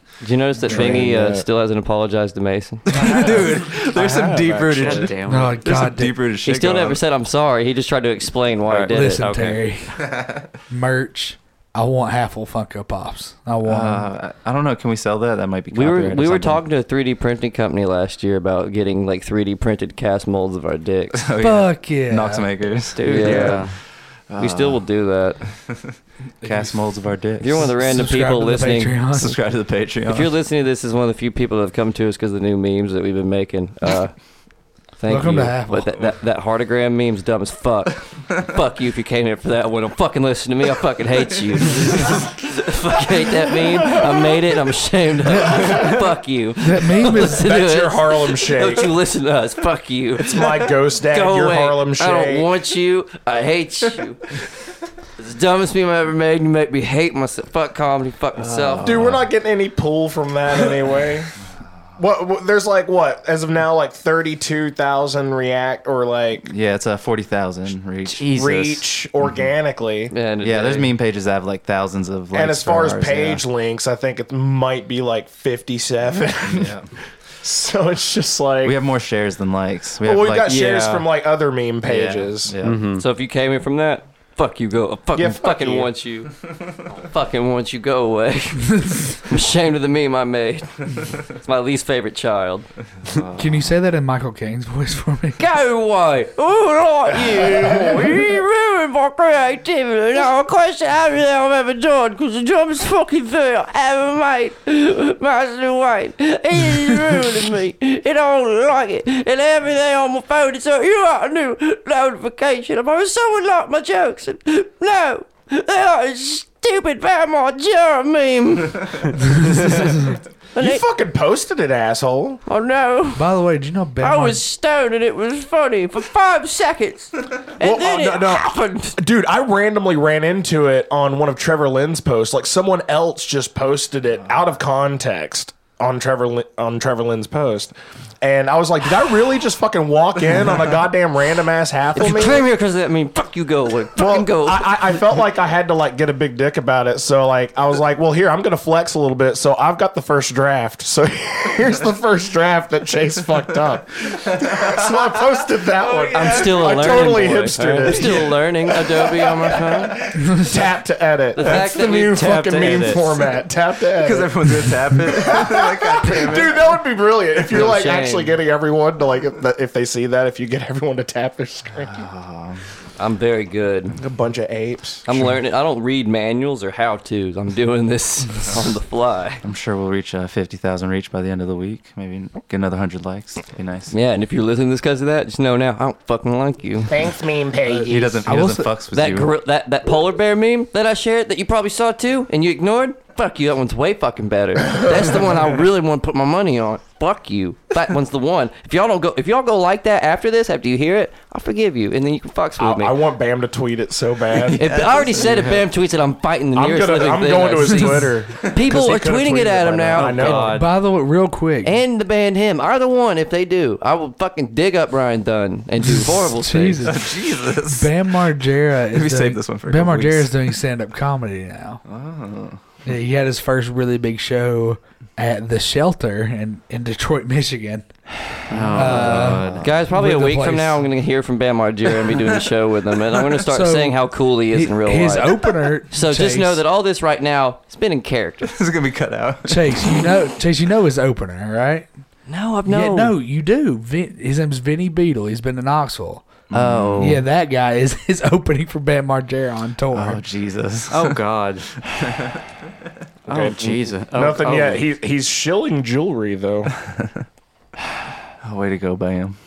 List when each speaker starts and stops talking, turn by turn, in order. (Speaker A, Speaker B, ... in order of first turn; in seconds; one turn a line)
Speaker A: 0.2-2.8
Speaker B: 0.6-1.4
Speaker B: 2.9-5.1
Speaker C: 3.0-7.0
Speaker D: 3.0-3.2
Speaker E: 4.8-5.6
Speaker D: 5.2-6.2
Speaker A: 6.4-9.6
Speaker D: 8.8-10.0
Speaker D: 10.7-14.1
Speaker C: 13.6-16.6
Speaker A: 15.7-21.2
Speaker C: 21.2-23.6
Speaker D: 21.4-22.5
Speaker E: 22.9-23.7
Speaker A: 23.0-23.7
Speaker C: 24.3-24.8
Speaker A: 24.4-25.5
Speaker C: 26.4-27.8
Speaker A: 27.4-29.1
Speaker D: 27.7-29.4
Speaker C: 29.1-30.4
Speaker A: 30.1-34.1
Speaker A: 35.0-54.3
Speaker D: 35.1-35.9
Speaker D: 45.3-45.8
Speaker D: 46.6-47.5
Speaker B: 47.3-48.9
Speaker B: 50.2-52.5
Speaker A: 55.2-58.9
Speaker C: 58.4-59.3
Speaker B: 58.8-61.3
Speaker B: 62.0-66.5
Speaker C: 66.4-68.8
Speaker E: 68.1-68.7
Speaker B: 68.3-70.1
Speaker A: 70.1-70.9
Speaker C: 70.4-73.4
Speaker B: 72.3-76.8
Speaker C: 76.5-76.9
Speaker B: 77.4-78.8
Speaker C: 78.6-80.7
Speaker B: 80.0-82.5
Speaker E: 80.4-81.0
Speaker C: 81.8-82.9
Speaker E: 82.6-83.0
Speaker A: 83.0-86.4
Speaker B: 85.1-85.9
Speaker A: 86.9-92.7
Speaker C: 93.1-93.7
Speaker D: 93.4-95.4
Speaker A: 95.4-119.8
Speaker A: 120.5-120.8
Speaker B: 120.5-122.4
Speaker A: 122.5-123.2
Speaker D: 123.1-124.4
Speaker A: 124.0-128.9
Speaker B: 127.6-142.5
Speaker A: 141.9-144.8
Speaker B: 143.9-172.0
Speaker C: 154.5-154.8
Speaker C: 155.9-157.1
Speaker A: 156.1-160.0
Speaker C: 157.9-158.2
Speaker A: 161.3-162.3
Speaker E: 161.8-163.2
Speaker C: 163.9-166.6
Speaker A: 167.5-168.3
Speaker C: 171.8-172.6
Speaker A: 173.0-173.9
Speaker B: 174.0-175.3
Speaker A: 175.1-179.4
Speaker C: 179.4-183.9
Speaker A: 183.9-186.9
Speaker B: 186.9-188.3
Speaker C: 187.8-189.3
Speaker D: 188.2-188.7
Speaker A: 188.9-203.0
Speaker B: 202.6-204.8
Speaker C: 204.3-205.7
Speaker A: 204.5-210.6
Speaker B: 206.5-210.6
Speaker E: 209.9-210.7
Speaker D: 210.5-211.8
Speaker A: 211.6-216.9
Speaker D: 216.2-221.8
Speaker C: 216.8-218.0
Speaker C: 218.9-220.3
Speaker C: 221.8-222.6
Speaker D: 222.8-227.9
Speaker E: 228.5-229.6
Speaker C: 228.5-229.8
Speaker D: 228.7-230.8
Speaker A: 229.6-238.5
Speaker D: 233.5-236.6
Speaker C: 238.5-240.1
Speaker D: 239.4-241.9
Speaker A: 242.3-243.1
Speaker D: 242.6-246.4
Speaker C: 246.5-247.2
Speaker A: 246.5-247.2
Speaker D: 247.0-250.2
Speaker C: 249.9-251.2
Speaker E: 250.9-251.7
Speaker C: 251.8-252.4
Speaker E: 253.3-254.8
Speaker B: 253.3-256.7
Speaker C: 256.8-257.2
Speaker C: 258.4-259.4